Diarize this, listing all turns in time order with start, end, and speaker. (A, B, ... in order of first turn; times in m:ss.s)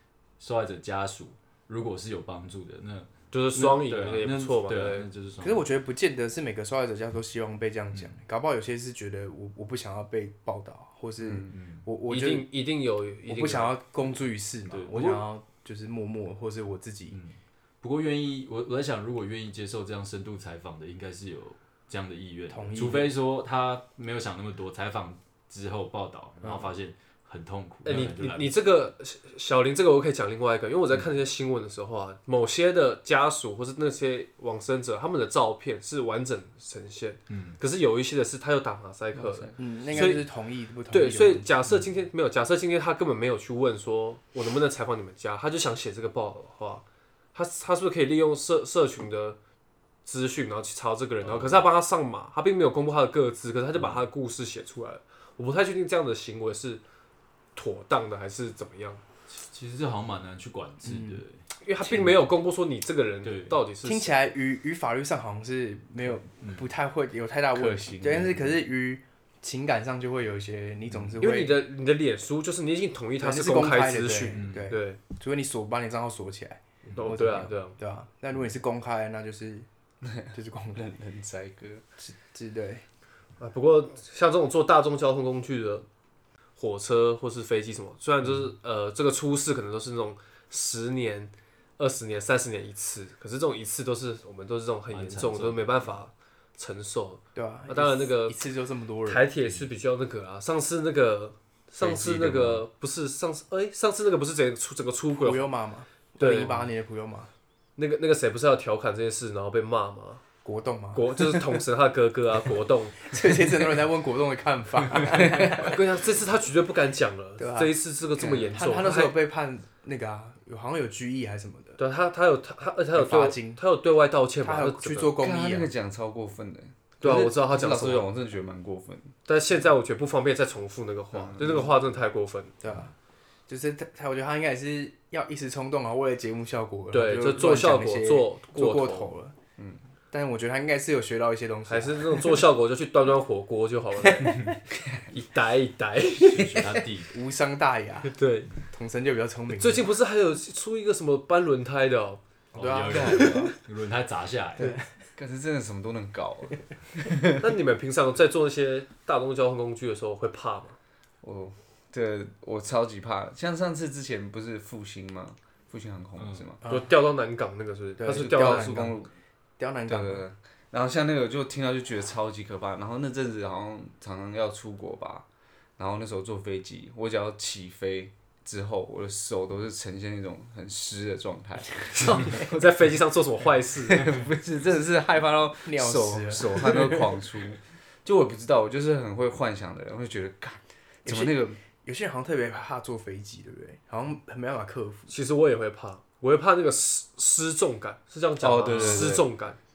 0:00.4-0:05.7 A
0:03.3-0:05.0 B
0:05.4-0:12.5 C
0:11.2-0:11.5 D
0:11.5-0:11.8 A
0:12.1-0:13.8 B
0:13.3-0:17.2 C
0:14.6-0:15.2 A
0:17.1-0:28.6 A
0:22.5-0:23.1 C
0:27.8-0:40.2 B
0:37.3-0:37.6 A
0:39.1-0:40.2 D
0:39.6-0:41.5 C
0:40.9-0:49.4 B
0:50.0-0:56.8 B
0:51.2-0:51.6 A
0:53.7-0:54.0 A
0:57.5-0:59.0 B
0:59.3-1:02.2 A
1:00.8-1:01.2 C
1:01.6-1:04.1 B
1:03.2-1:03.6 A
1:03.8-1:11.6 C
1:06.4-1:06.7 A
1:07.5-1:08.6 D
1:11.2-1:15.0 B
1:13.2-1:19.7 C
1:14.3-1:14.7 A
1:17.0-1:17.8 B
1:20.0-1:21.8 D
1:20.3-1:20.8 C
1:22.0-1:22.8 C
1:23.4-1:25.8 B
1:26.6-1:38.4 B
1:34.9-1:35.9 A
1:37.3-1:39.2 C
1:39.0-1:45.5 B
1:41.9-1:42.4 D
1:42.0-1:42.5 A
1:45.2-1:47.3 C
1:46.2-1:46.7 B
1:47.8-1:50.2 B
1:50.4-1:51.6 C
1:50.9-1:53.0 B
1:53.0-1:55.8 C
1:55.5-1:59.1 B
1:57.4-2:01.8 C
2:01.8-2:05.1 B
2:02.9-2:03.6 C
2:04.4-2:05.7 C
2:05.2-2:09.1 D
2:07.0-2:08.1 B
2:09.2-2:12.5 B
2:11.1-2:11.7 D
2:12.6-2:12.9 C
2:13.5-2:19.3 C
2:16.9-2:19.1 B
2:20.1-2:22.4 C
2:21.7-2:24.4 B
2:24.7-2:25.0 D
2:25.1-2:26.5 B
2:26.2-2:27.1 A
2:26.4-2:29.9 C
2:28.1-2:28.5 B
2:29.6-2:32.2 B
2:32.5-2:33.6 C
2:32.5-2:34.7 A
2:33.1-2:33.4 D
2:34.6-2:34.9 C
2:35.2-2:37.2 D
2:37.4-2:40.8 B
2:41.2-2:46.6 D
2:46.2-2:46.5 A
2:46.6-2:48.8 B
2:48.0-2:49.0 C
2:48.1-2:49.1 D
2:49.6-2:50.2 C
2:49.8-2:55.2 D
2:55.8-3:02.5 D
3:02.3-3:04.1 B
3:03.9-3:11.6 D
3:05.6-3:07.1 C
3:11.0-3:15.1 C
3:15.1-3:19.6 B
3:18.4-3:19.3 D
3:18.7-3:19.1 A